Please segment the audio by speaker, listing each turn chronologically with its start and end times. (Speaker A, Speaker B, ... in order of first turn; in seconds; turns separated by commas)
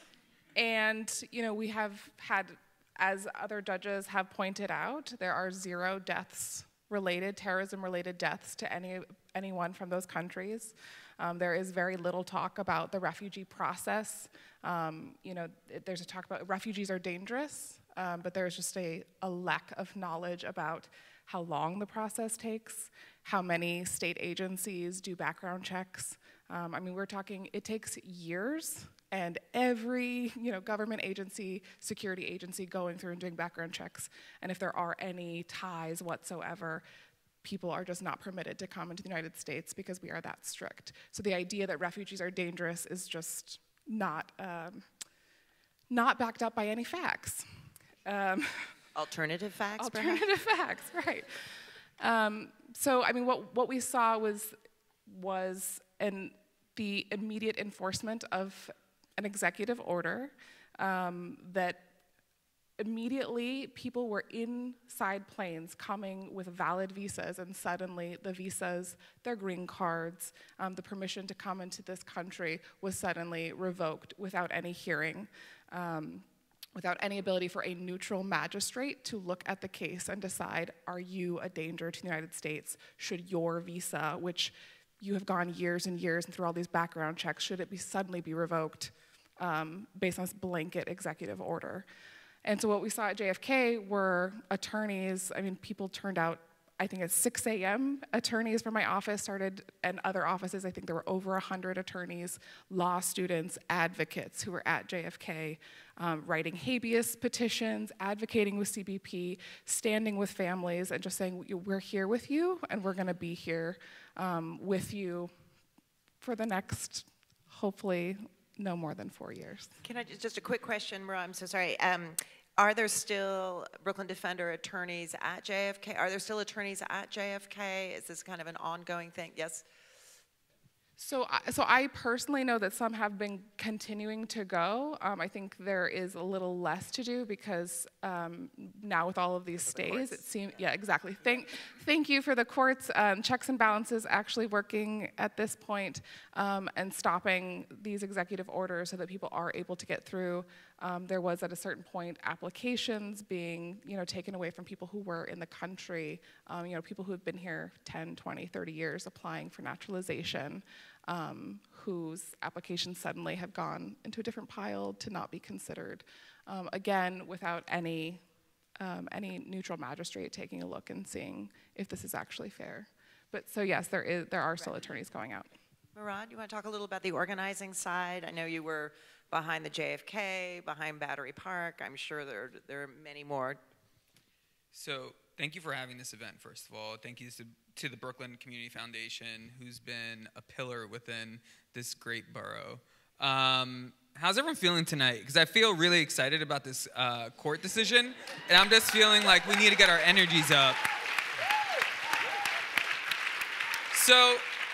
Speaker A: 0.6-36.8, Speaker A: 37.4-44.9, Speaker A: 45.9-47.5, Speaker A: 48.0-48.7, Speaker B: 49.0-50.2, Speaker A: 49.8-51.3, Speaker A: 52.0-54.5, Speaker A: 55.1-61.9, Speaker A: 62.8-91.9, Speaker A: 92.5-115.3, Speaker A: 116.2-119.7, Speaker B: 119.8-129.7, Speaker A: 131.0-168.2, Speaker B: 139.7-140.2, Speaker A: 168.8-175.5, Speaker B: 175.9-183.6, Speaker C: 184.7-200.8, Speaker C: 203.9-204.4